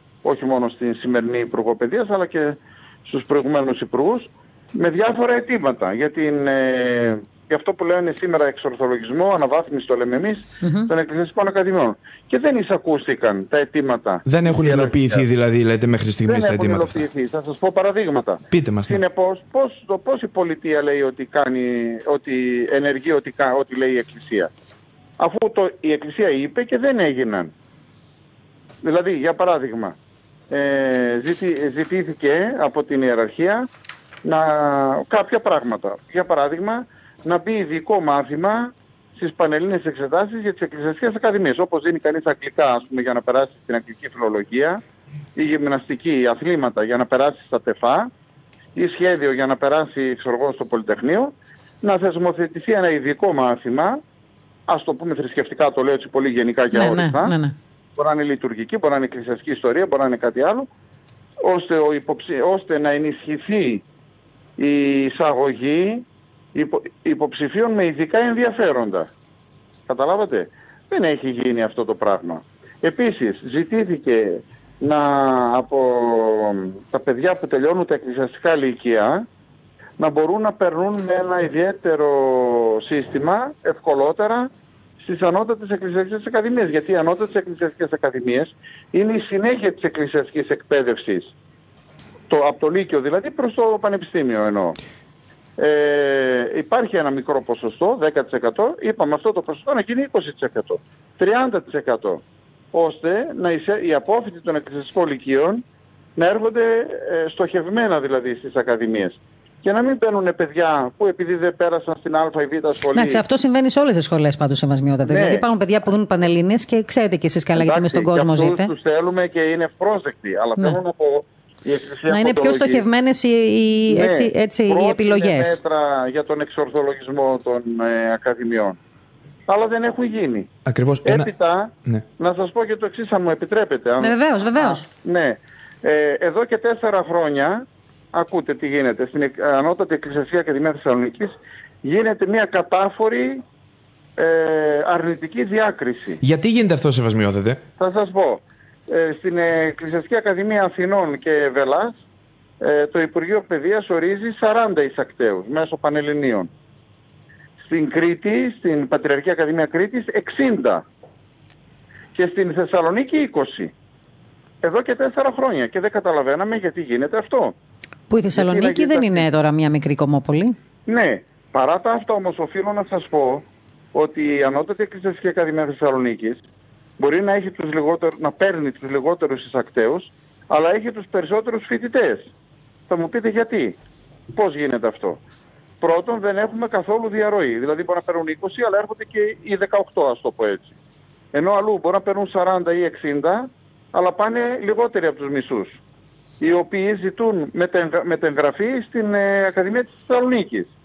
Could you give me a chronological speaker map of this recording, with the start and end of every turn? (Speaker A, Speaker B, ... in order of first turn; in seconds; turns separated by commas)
Speaker A: 0.2-15.2, Speaker B: 10.6-10.9, Speaker C: 14.3-17.1, Speaker A: 16.3-24.5, Speaker C: 18.5-19.0, Speaker A: 25.2-27.5, Speaker A: 28.8-30.0, Speaker A: 30.5-33.7, Speaker A: 34.2-44.8, Speaker A: 45.4-48.1, Speaker A: 48.8-54.0, Speaker A: 54.7-57.3, Speaker B: 56.7-57.5, Speaker A: 58.0-60.7, Speaker A: 61.4-63.8, Speaker A: 64.6-69.1, Speaker A: 69.9-79.3, Speaker A: 80.0-84.5, Speaker A: 85.0-91.3, Speaker A: 92.3-94.8, Speaker A: 95.6-102.2, Speaker A: 102.7-105.6, Speaker A: 106.2-113.2, Speaker B: 112.9-118.7, Speaker A: 115.1-115.5, Speaker A: 117.6-122.8, Speaker B: 122.1-125.6, Speaker A: 123.9-128.8, Speaker A: 129.5-130.5, Speaker C: 130.7-131.3, Speaker A: 131.0-143.4, Speaker B: 134.0-134.8, Speaker A: 144.2-146.2, Speaker C: 146.2-147.6, Speaker A: 147.8-152.0, Speaker A: 152.6-156.5, Speaker A: 157.7-160.8, Speaker A: 162.2-163.7, Speaker A: 164.6-167.6, Speaker B: 168.1-170.6, Speaker A: 168.3-169.3, Speaker A: 170.9-176.4, Speaker A: 177.0-182.3, Speaker A: 182.9-183.8, Speaker A: 184.3-185.2, Speaker A: 185.8-190.7, Speaker A: 191.3-195.8, Speaker A: 196.4-200.7